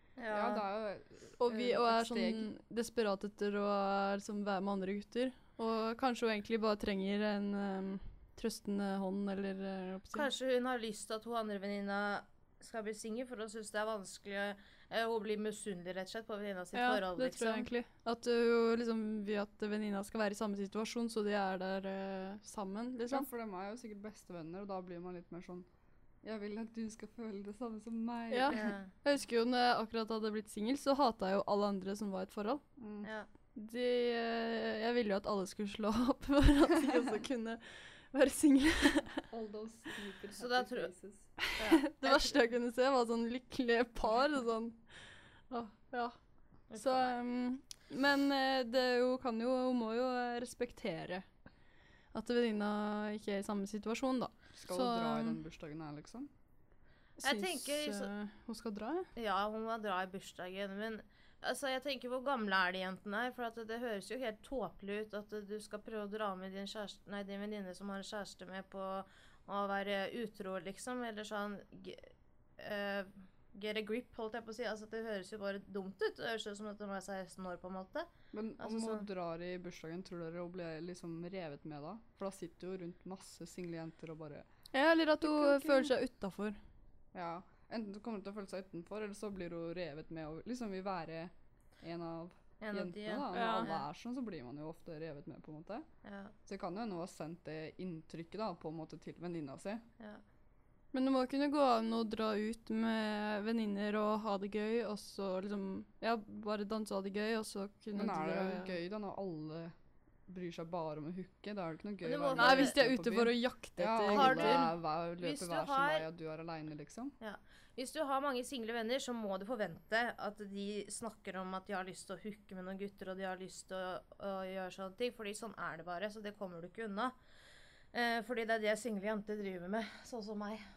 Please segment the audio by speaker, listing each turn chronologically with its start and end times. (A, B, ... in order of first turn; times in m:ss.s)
0:00.2-0:00.6 A
0:00.3-0:02.5 B
0:01.4-0:10.3 C
0:10.1-0:17.7 A
0:16.7-0:23.3 C
0:23.1-0:25.7 B
0:26.2-0:28.8 B
0:28.3-0:32.6 C
0:28.5-0:28.9 A
0:32.8-0:33.1 B
0:33.6-0:39.3 C
0:39.3-0:41.4 B
0:40.4-0:40.9 A
0:41.4-0:44.8 C
0:41.6-0:42.4 A
0:45.5-0:46.2 C
0:46.7-0:47.1 A
0:46.8-0:51.3 C
0:52.1-0:55.4 C
0:54.6-0:56.3 B
0:57.2-0:59.1 C
0:57.2-0:58.1 A
0:59.2-1:18.1 A
1:18.3-1:24.5 B
1:18.6-1:19.0 A
1:24.7-1:26.6 C
1:25.2-1:25.9 B
1:27.1-1:35.9 B
1:32.6-1:33.8 A
1:33.3-1:33.7 C
1:36.0-1:36.3 A
1:36.5-1:39.9 B
1:40.9-1:48.8 C
1:48.0-1:49.7 B
1:50.3-1:57.2 B
1:52.0-1:52.8 A
1:52.4-1:54.7 C
1:54.1-1:56.0 A
1:57.2-2:07.1 A
2:07.9-2:10.6 A